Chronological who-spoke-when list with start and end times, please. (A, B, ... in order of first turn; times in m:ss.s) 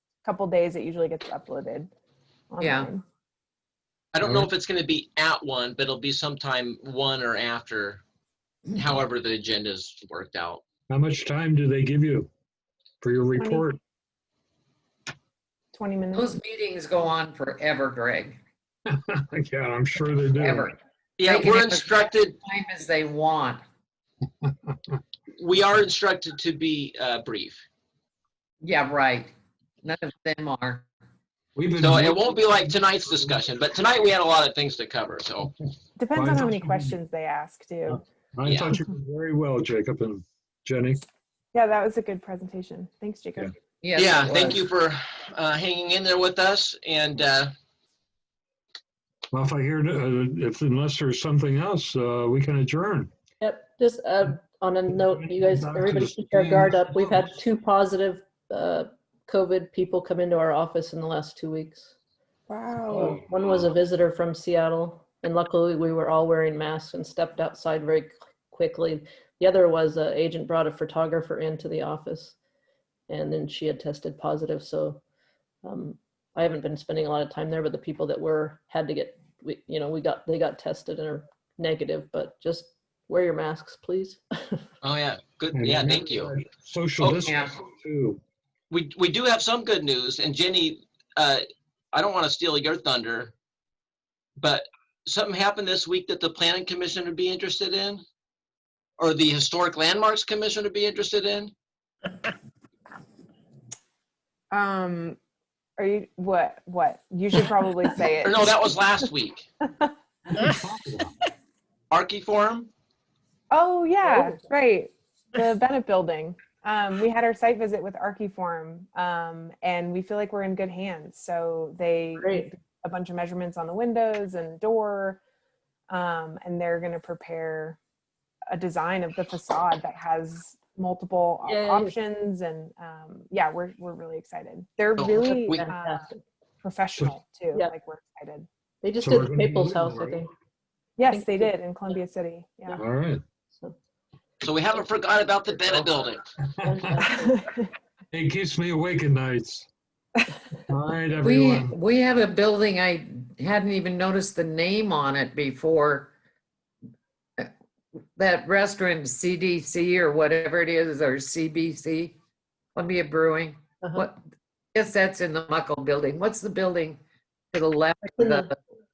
0:00.2-0:01.9 A
0:02.5-0:03.0 A
0:02.6-0:02.9 B
0:04.1-0:08.0 C
0:04.2-0:04.5 D
0:08.7-0:10.6 C
0:10.9-0:12.3 D
0:13.0-0:13.8 D
0:13.4-0:13.6 A
0:15.7-0:16.4 A
0:16.1-0:18.4 B
0:18.9-0:20.7 D
0:20.4-0:23.6 B
0:21.2-0:22.4 C
0:25.4-0:27.6 C
0:28.6-0:29.3 B
0:29.8-0:30.8 B
0:31.5-0:32.3 D
0:31.8-0:35.5 C
0:36.0-0:38.0 A
0:36.1-0:36.9 D
0:37.9-0:41.0 D
0:38.4-0:38.8 C
0:41.5-0:43.5 A
0:43.8-0:44.6 B
0:43.9-0:47.5 C
0:49.3-0:53.1 D
0:53.4-1:01.9 E
0:55.0-0:57.4 D
1:02.5-1:03.1 A
1:02.9-1:12.3 E
1:13.1-1:15.0 E
1:15.6-1:24.6 E
1:24.8-1:26.3 C
1:25.5-1:28.2 D
1:27.0-1:27.3 C
1:27.3-1:27.6 B
1:28.7-1:33.3 C
1:34.4-1:38.0 C
1:39.0-1:41.5 C
1:44.5-1:45.2 A
1:45.8-1:48.8 A
1:48.2-1:49.5 C
1:49.6-1:49.9 A
1:50.4-1:51.1 D
1:51.9-1:52.7 C
1:53.5-2:05.2 A
1:54.0-1:54.5 E
2:02.2-2:02.5 E
2:05.9-2:07.8 A
2:08.5-2:16.1 A
2:11.4-2:12.0 E
2:15.0-2:15.6 C
2:15.2-2:16.2 E
2:16.6-2:18.5 A
2:18.8-2:20.3 E
2:19.0-2:20.2 D
2:21.0-2:22.8 A
2:21.0-2:22.0 E
2:22.8-2:23.2 D
2:24.4-2:26.2 C
2:26.6-2:27.4 E
2:26.6-2:26.9 D
2:27.0-2:27.7 A
2:28.1-2:29.7 D
2:30.7-2:31.7 D
2:31.2-2:36.1 B
2:38.2-2:42.2 B
2:42.8-2:44.2 B
2:44.7-2:47.0 B
2:47.5-2:48.5 B
2:48.2-2:48.5 E